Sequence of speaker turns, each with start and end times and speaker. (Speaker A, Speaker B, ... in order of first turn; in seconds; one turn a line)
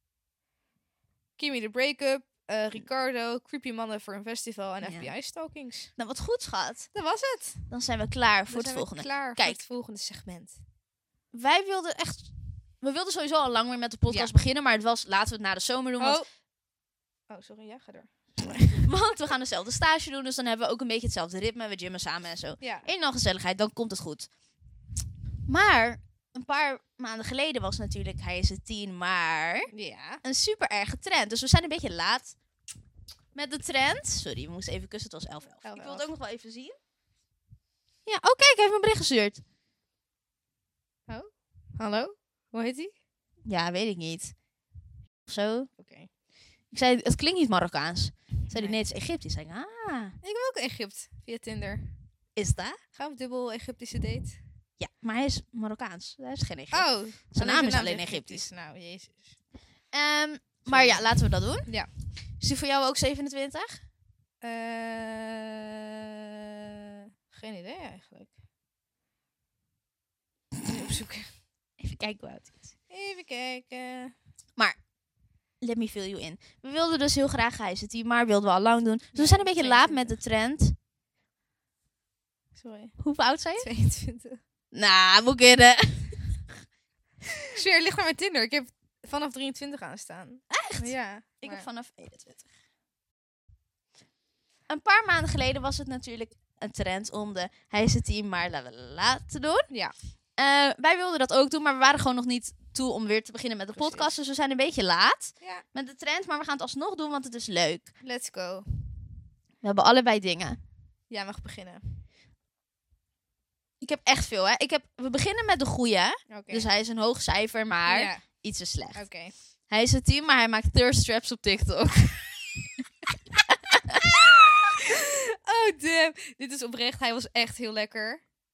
Speaker A: 1.4-5.9
Speaker B: 4.8-5.1
Speaker B: 6.0-6.9
Speaker A: 6.9-7.7
Speaker B: 7.7-9.6
Speaker A: 8.5-10.6
Speaker B: 11.3-16.2
Speaker A: 14.1-14.3
Speaker A: 16.0-16.3
Speaker A: 17.3-18.8
Speaker B: 18.5-24.3
Speaker A: 22.6-22.9
Speaker B: 25.5-29.7
Speaker A: 29.7-30.2
Speaker B: 30.2-32.3
Speaker B: 33.3-36.8
Speaker A: 35.6-36.1
Speaker B: 38.0-39.4
Speaker A: 41.1-42.9
Speaker B: 43.5-44.3
Speaker B: 45.2-45.7
Speaker A: 45.8-46.1
Speaker B: 46.7-50.1
Speaker A: 48.5-48.8
Speaker A: 50.2-51.9
Speaker B: 52.4-52.8
Speaker A: 52.9-54.4
Speaker B: 54.8-58.5
Speaker A: 56.7-59.4
Speaker B: 59.9-61.7
Speaker A: 60.6-61.9
Speaker B: 62.4-63.8
Speaker A: 64.4-65.6
Speaker A: 67.3-68.3
Speaker A: 70.6-71.3
Speaker B: 71.8-72.6
Speaker A: 72.9-74.1
Speaker B: 75.6-80.7
Speaker A: 79.1-80.2
Speaker A: 82.5-83.0
Speaker B: 83.0-83.7
Speaker A: 83.6-84.4
Speaker B: 84.7-86.4
Speaker A: 87.5-91.7
Speaker B: 90.5-92.5
Speaker B: 94.7-99.7
Speaker B: 100.4-107.9
Speaker A: 103.7-104.1
Speaker A: 105.4-105.6
Speaker A: 108.0-108.7
Speaker B: 109.6-110.6
Speaker A: 111.1-111.8
Speaker B: 113.8-119.1
Speaker A: 116.3-116.7
Speaker A: 117.9-118.3
Speaker A: 118.9-119.3
Speaker B: 119.7-122.6
Speaker B: 123.5-124.3
Speaker A: 124.8-128.2